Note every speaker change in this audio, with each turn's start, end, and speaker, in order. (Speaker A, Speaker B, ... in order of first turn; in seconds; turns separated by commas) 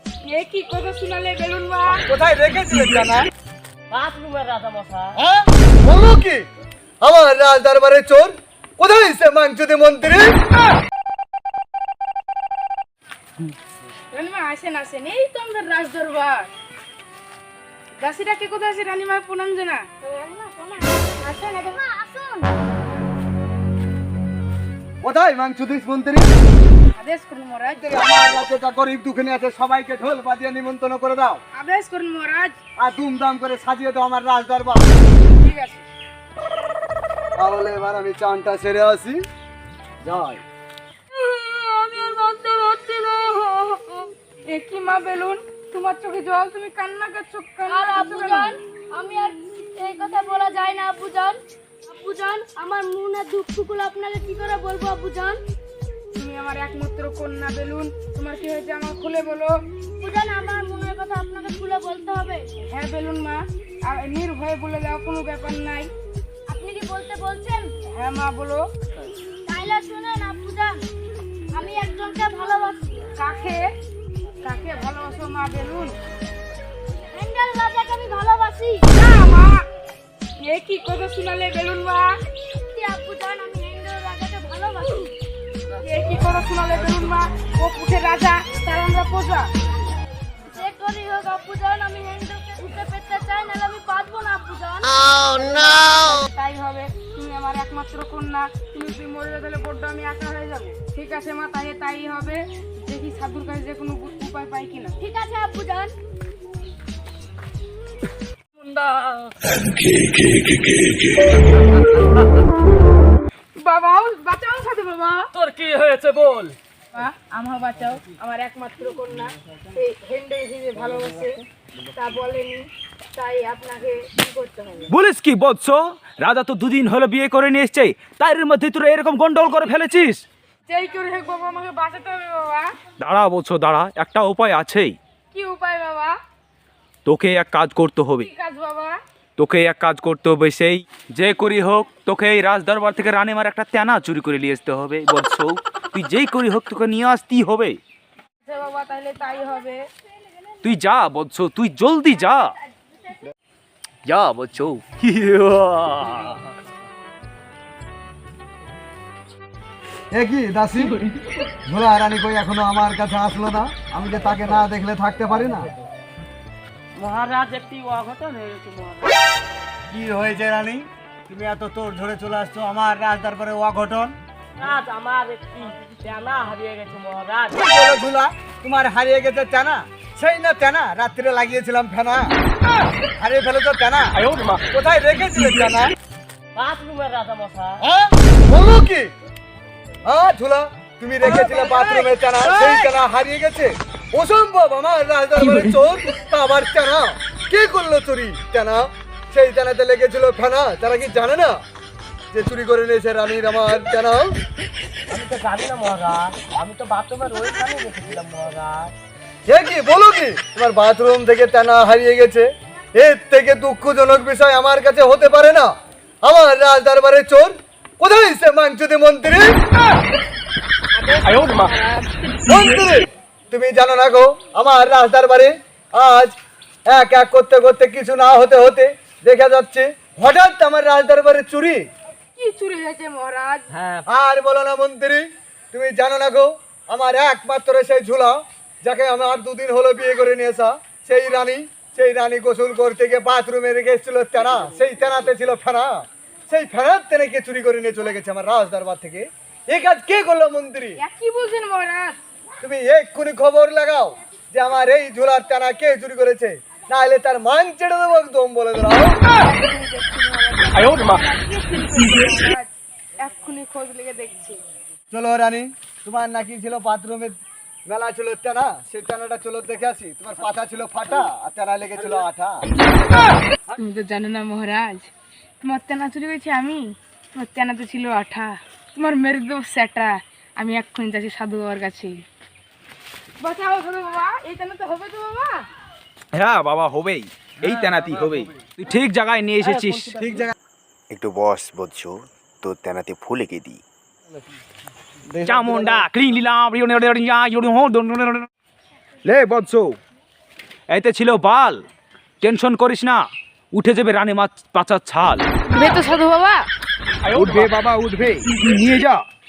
Speaker A: 0.2-2.0, Speaker B: 2.1-3.3, Speaker C: 3.9-5.1, Speaker B: 5.2-6.5, Speaker B: 7.0-10.4, Speaker A: 14.1-16.5, Speaker A: 18.0-22.5, Speaker D: 21.7-22.4, Speaker B: 25.0-26.3, Speaker A: 26.9-27.8, Speaker B: 27.8-31.4, Speaker A: 31.6-32.6, Speaker B: 32.8-34.9, Speaker A: 35.4-35.9, Speaker B: 37.4-39.2, Speaker B: 40.0-40.4, Speaker D: 41.2-44.1, Speaker A: 44.5-48.5, Speaker D: 47.7-55.4, Speaker A: 56.1-59.5, Speaker D: 60.0-62.5, Speaker A: 62.6-65.9, Speaker D: 66.5-67.7, Speaker A: 67.8-68.7, Speaker D: 69.5-70.9, Speaker D: 71.5-73.1, Speaker A: 73.2-73.7, Speaker A: 74.4-76.0, Speaker D: 77.1-78.9, Speaker A: 78.9-79.7, Speaker A: 80.4-82.2, Speaker D: 82.7-85.1, Speaker A: 85.8-89.5, Speaker D: 90.5-96.0, Speaker A: 95.6-105.0, Speaker D: 105.0-105.9, Speaker C: 108.7-109.1, Speaker A: 113.6-115.3, Speaker C: 115.3-116.5, Speaker A: 116.9-124.9, Speaker E: 124.9-130.2, Speaker A: 130.7-132.7, Speaker E: 133.0-135.0, Speaker A: 135.3-136.2, Speaker E: 137.1-138.3, Speaker A: 138.2-138.9, Speaker E: 139.4-147.8, Speaker A: 148.4-149.8, Speaker E: 150.6-152.6, Speaker E: 154.1-156.4, Speaker B: 160.1-161.0, Speaker B: 161.7-165.7, Speaker C: 166.9-169.2, Speaker B: 169.9-174.2, Speaker C: 174.6-177.6, Speaker B: 177.6-182.3, Speaker B: 183.2-184.2, Speaker B: 184.7-185.9, Speaker C: 186.6-187.8, Speaker B: 187.8-189.1, Speaker B: 190.1-201.6, Speaker B: 202.3-204.3, Speaker C: 205.1-208.9, Speaker B: 209.5-215.7, Speaker B: 216.2-219.5, Speaker A: 220.9-222.1, Speaker B: 222.5-226.4, Speaker B: 226.9-231.8, Speaker A: 232.4-233.7, Speaker C: 233.7-234.1, Speaker B: 234.1-251.0, Speaker A: 251.0-252.2, Speaker B: 252.6-259.2, Speaker A: 259.2-264.6, Speaker B: 265.1-272.8, Speaker A: 273.7-282.2, Speaker A: 283.4-285.6, Speaker E: 286.3-290.3, Speaker B: 289.7-290.5, Speaker F: 291.1-293.8, Speaker B: 295.4-296.1, Speaker E: 295.5-298.5, Speaker E: 299.2-300.0, Speaker E: 300.9-301.8, Speaker E: 302.4-303.2, Speaker E: 303.7-305.5, Speaker A: 305.7-306.7, Speaker E: 307.3-309.2